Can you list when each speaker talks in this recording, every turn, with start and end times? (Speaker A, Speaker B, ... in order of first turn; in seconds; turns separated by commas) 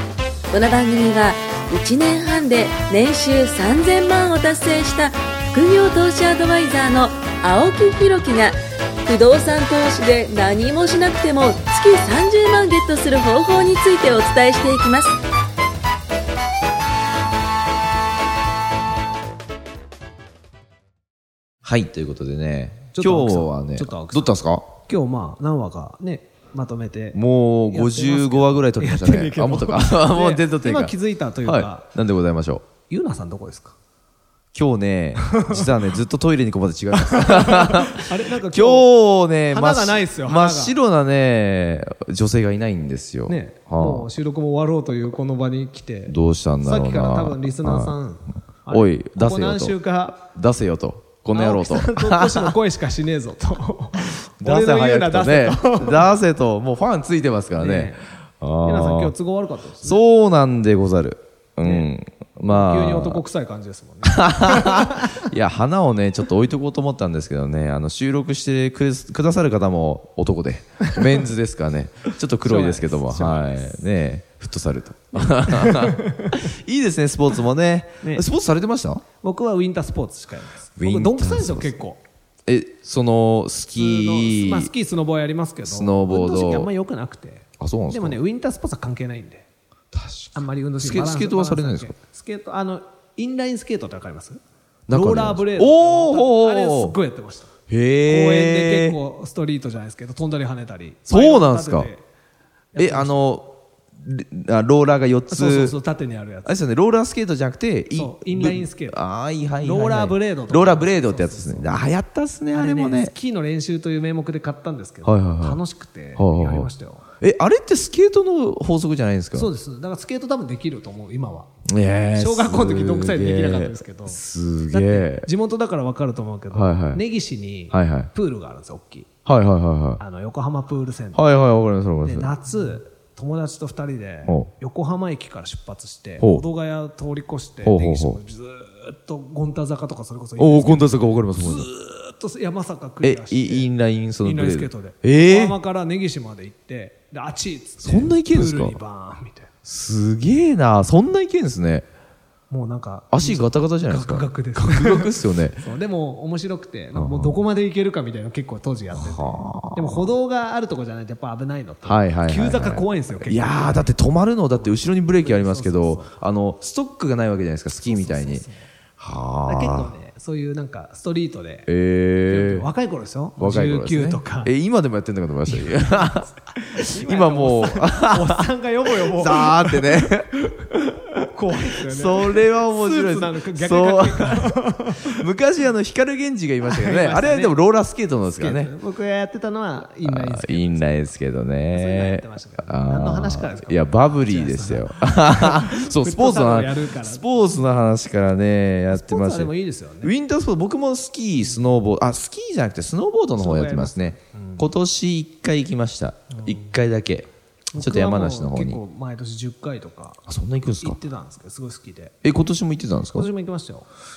Speaker A: 0.5-15.2, Speaker B: 21.6-24.7, Speaker C: 22.9-31.9, Speaker B: 27.1-32.6, Speaker C: 32.9-33.7, Speaker B: 34.5-44.1, Speaker C: 37.0-38.9, Speaker C: 39.5-40.8, Speaker C: 43.3-50.2, Speaker B: 46.1-47.9, Speaker B: 48.7-52.5, Speaker C: 51.3-56.1, Speaker B: 54.4-59.1, Speaker C: 57.6-58.1, Speaker C: 58.6-60.0, Speaker B: 59.8-63.2, Speaker C: 61.6-65.2, Speaker B: 64.0-79.0, Speaker C: 72.4-73.8, Speaker C: 75.1-76.4, Speaker C: 78.0-78.3, Speaker C: 79.2-82.0, Speaker B: 80.8-81.7, Speaker B: 82.5-84.7, Speaker C: 83.8-89.5, Speaker B: 85.6-86.7, Speaker B: 87.6-88.2, Speaker B: 89.9-91.9, Speaker C: 90.3-97.5, Speaker B: 94.9-97.0, Speaker B: 97.7-99.0, Speaker C: 98.0-102.0, Speaker B: 101.1-101.9, Speaker C: 102.7-103.2, Speaker B: 102.8-105.7, Speaker C: 105.3-106.6, Speaker B: 106.4-113.1, Speaker C: 108.0-109.0, Speaker C: 109.6-111.8, Speaker C: 112.5-117.0, Speaker B: 115.0-115.6, Speaker B: 116.2-116.7, Speaker B: 117.2-119.5, Speaker C: 119.3-121.5, Speaker B: 121.7-125.3, Speaker C: 122.1-129.1, Speaker B: 126.5-127.0, Speaker B: 127.7-128.1, Speaker B: 129.2-130.0, Speaker C: 130.0-131.2, Speaker B: 131.1-132.3, Speaker C: 132.0-143.7, Speaker B: 136.2-136.4, Speaker B: 137.6-138.2, Speaker B: 140.4-141.7, Speaker B: 143.0-145.6, Speaker C: 144.2-149.5, Speaker B: 147.8-148.8, Speaker B: 149.6-151.8, Speaker C: 152.5-163.9, Speaker B: 153.1-155.6, Speaker B: 156.9-157.4, Speaker B: 158.9-160.1, Speaker B: 161.8-168.4, Speaker C: 164.6-166.1, Speaker C: 167.8-168.7, Speaker B: 169.0-169.9, Speaker C: 169.4-171.7, Speaker B: 171.7-172.7, Speaker C: 172.3-174.5, Speaker B: 173.4-180.9, Speaker C: 175.5-180.5, Speaker C: 181.2-185.2, Speaker B: 181.7-188.7, Speaker C: 186.6-187.6, Speaker C: 188.3-190.9, Speaker B: 190.0-199.5, Speaker C: 191.7-197.4, Speaker C: 198.9-200.1, Speaker B: 200.0-208.8, Speaker C: 203.3-204.7, Speaker C: 206.3-206.6, Speaker C: 207.7-210.2, Speaker B: 210.3-211.0, Speaker C: 210.8-212.2, Speaker B: 212.2-213.3, Speaker C: 213.1-213.9